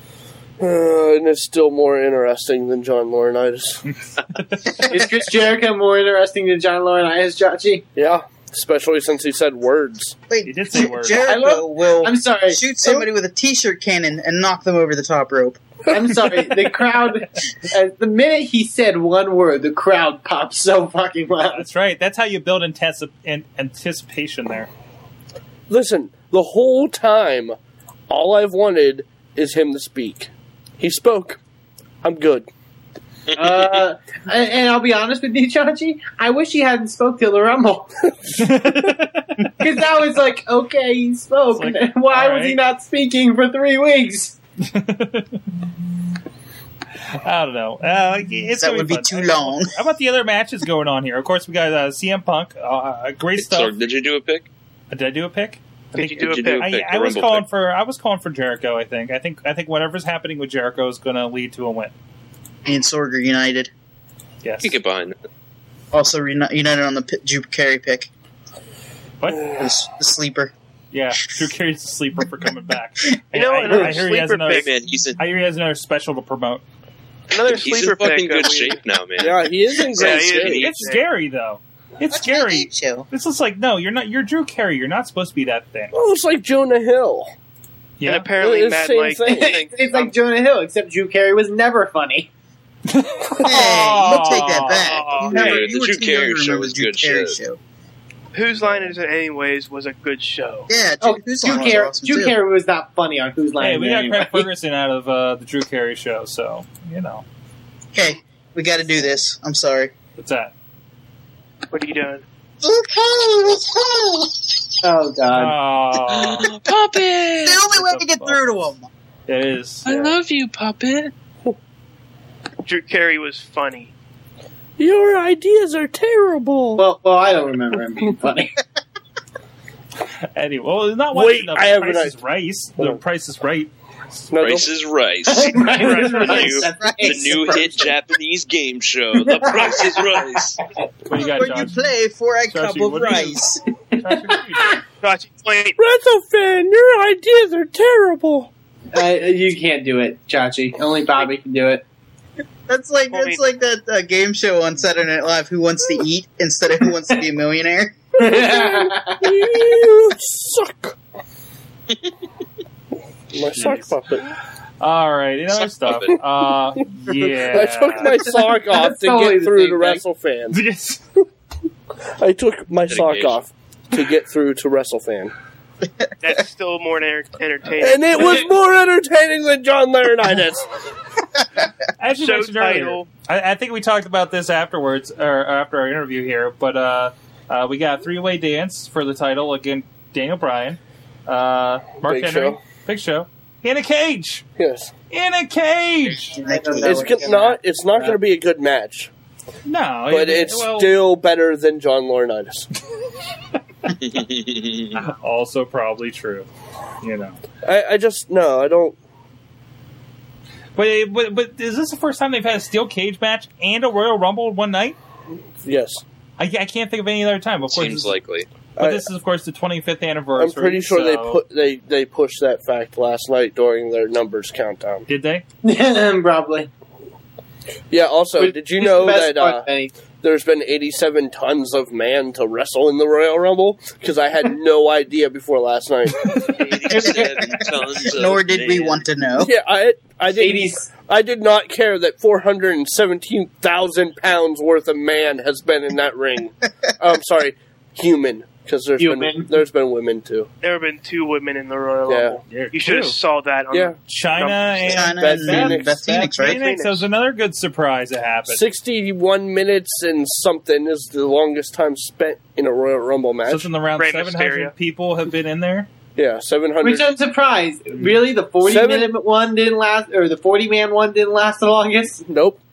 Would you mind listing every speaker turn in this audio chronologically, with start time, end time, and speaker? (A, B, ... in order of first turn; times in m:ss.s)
0:00.6-0:03.8 A
0:03.9-0:04.9 B
0:04.9-0:07.9 C
0:08.0-0:10.2 A
0:10.3-0:15.6 D
0:10.4-0:11.3 B
0:11.1-0:13.1 C
0:15.9-0:21.6 C
0:21.6-0:24.7 B
0:25.7-0:27.6 A
0:28.1-0:31.4 A
0:32.0-0:32.5 A
0:33.3-0:33.8 E
0:33.3-0:37.9 C
0:38.4-0:39.7 B
0:39.6-0:44.4 C
0:41.6-0:42.6 B
0:44.6-0:45.4 B
0:47.2-0:53.8 B
0:48.5-0:49.8 D
0:53.4-0:54.5 E
0:54.9-1:01.9 B
0:55.9-0:56.7 F
0:56.0-0:57.4 E
1:02.7-1:03.7 D
1:04.4-1:04.7 B
1:04.6-1:05.2 E
1:05.9-1:08.1 D
1:09.2-1:09.5 B
1:09.5-1:10.5 D
1:10.9-1:14.7 B
1:13.3-1:14.7 F
1:14.5-1:15.2 E
1:15.2-1:16.6 B
1:17.3-1:18.8 F
1:17.4-1:20.8 E
1:19.2-1:20.7 A
1:19.9-1:21.0 F
1:20.6-1:25.9 B
1:22.1-1:23.1 D
1:25.9-1:27.3 A
1:28.0-1:28.3 B
1:28.0-1:30.1 F
1:28.4-1:29.5 A
1:29.3-1:32.3 C
1:32.9-1:35.1 B
1:33.4-1:37.6 D
1:34.7-1:35.7 F
1:35.3-1:37.4 E
1:38.3-1:40.7 F
1:40.7-1:42.4 D
1:41.0-1:44.5 C
1:43.6-1:47.3 B
1:47.9-1:49.9 D
1:50.2-1:50.5 B
1:51.7-1:52.2 F
1:52.6-1:54.6 D
1:54.8-1:55.6 C
1:55.3-1:56.5 B
1:56.1-1:57.6 E
1:57.4-1:58.9 D
1:57.7-1:58.4 B
1:59.3-2:00.2 B
1:59.8-2:01.1 E
2:02.6-2:03.9 F
2:04.8-2:06.8 A
2:06.8-2:08.6 C
2:10.3-2:14.3 B
2:11.1-2:12.1 A
2:14.3-2:14.7 A
2:14.4-2:20.6 E
2:15.3-2:17.9 C
2:15.7-2:16.6 F
2:16.8-2:17.3 D
2:19.4-2:19.9 C
2:21.1-2:21.8 B
2:21.1-2:23.6 D
2:22.5-2:23.4 B
2:24.0-2:24.8 B
2:25.0-2:25.8 F
2:25.8-2:28.5 A
2:28.9-2:31.8 C
2:32.7-2:38.0 D
2:33.1-2:33.4 F
2:38.2-2:39.2 C
2:38.2-2:41.0 A
2:43.3-2:44.2 A
2:43.5-2:48.1 B
2:45.6-2:46.1 E
2:47.2-2:50.6 A
2:48.7-2:50.0 C
2:50.5-2:51.2 B
2:52.2-2:55.3 A
2:52.9-2:53.4 E
2:56.2-2:58.4 F
2:57.8-3:00.7 A
3:02.0-3:14.5 B
3:02.2-3:03.1 F
3:12.1-3:12.6 A
3:14.6-3:14.9 A
3:15.1-3:16.4 B
3:16.3-3:18.2 C
3:16.4-3:17.0 D
3:16.8-3:19.1 A
3:19.6-3:21.0 B
3:20.1-3:22.7 A
3:23.9-3:25.0 E
3:25.0-3:26.5 B
3:27.0-3:27.4 B
3:27.6-3:29.0 A
3:30.8-3:35.0 B
3:35.6-3:36.0 A
3:36.4-3:38.1 B
3:37.7-3:38.5 E
3:38.8-3:39.0 A
3:38.8-3:41.4 B
3:40.4-3:45.1 A
3:45.1-3:45.4 B
3:45.6-3:46.7 C
3:47.9-3:49.7 A
3:48.4-3:49.9 C
3:50.2-3:56.7 A
3:56.6-3:59.0 E
3:56.8-3:59.5 D
3:59.4-4:10.5 A
4:00.4-4:00.9 C
4:09.0-4:09.6 C
4:10.6-4:14.9 F
4:12.1-4:12.4 A
4:12.5-4:13.2 B
4:14.1-4:18.6 B
4:14.9-4:16.7 D
4:15.1-4:16.0 A
4:16.2-4:17.0 F
4:18.5-4:23.7 A
4:23.5-4:25.9 B
4:23.9-4:24.7 F
4:26.2-4:27.2 A
4:26.8-4:32.2 C
4:28.6-4:29.1 A
4:32.2-4:32.6 A